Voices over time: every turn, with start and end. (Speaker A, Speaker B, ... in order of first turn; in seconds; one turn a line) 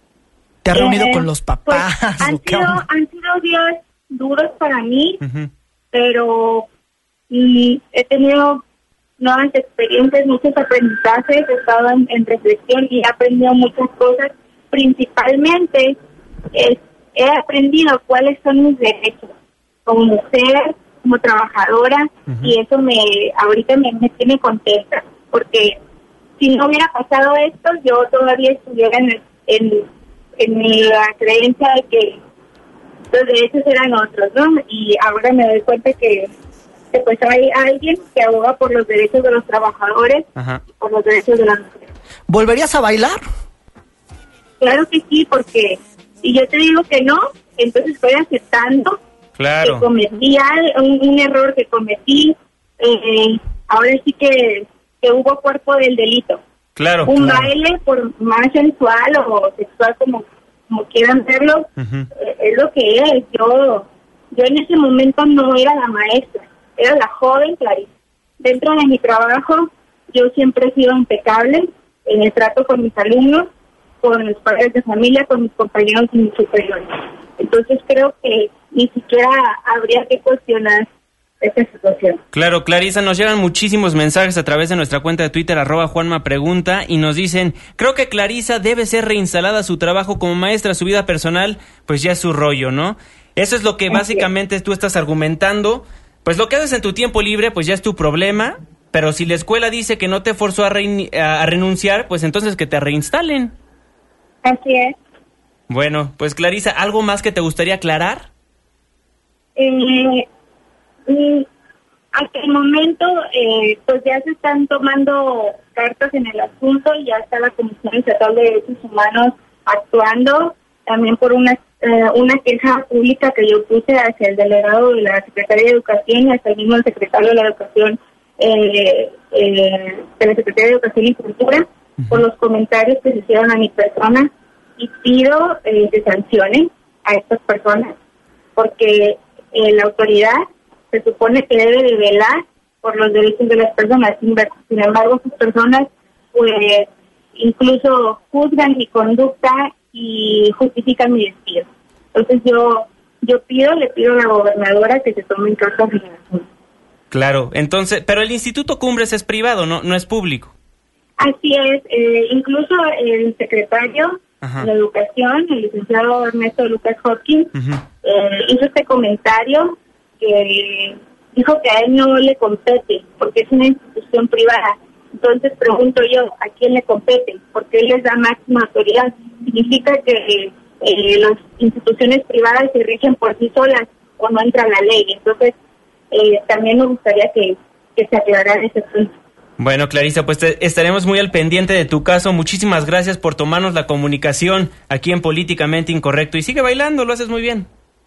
Speaker A: 0.6-2.8
Speaker B: 0.7-5.2
Speaker C: 5.2-5.5
Speaker B: 5.9-6.7
Speaker B: 7.3-8.6
Speaker B: 9.2-16.0
Speaker B: 16.5-19.3
Speaker B: 19.9-25.8
Speaker C: 22.3-22.5
Speaker B: 26.4-32.2
Speaker B: 33.1-36.3
Speaker B: 36.9-41.9
Speaker C: 40.4-40.6
Speaker A: 42.3-43.2
Speaker B: 44.6-49.0
Speaker C: 49.4-49.9
Speaker B: 49.6-56.4
Speaker C: 56.8-57.5
Speaker B: 57.0-73.5
Speaker C: 61.8-62.1
Speaker B: 74.0-80.9
Speaker B: 81.4-82.2
Speaker C: 82.3-103.5
Speaker B: 93.9-94.2
Speaker B: 104.4-105.0
Speaker C: 105.7-108.3
Speaker B: 109.5-110.3
Speaker B: 111.1-111.5
Speaker B: 112.1-137.9
Speaker C: 132.0-132.2
Speaker B: 138.6-156.4
Speaker C: 157.1-160.5
Speaker B: 161.2-185.6
Speaker C: 164.4-164.7
Speaker C: 167.5-167.8
Speaker B: 186.1-189.1
Speaker C: 189.6-197.7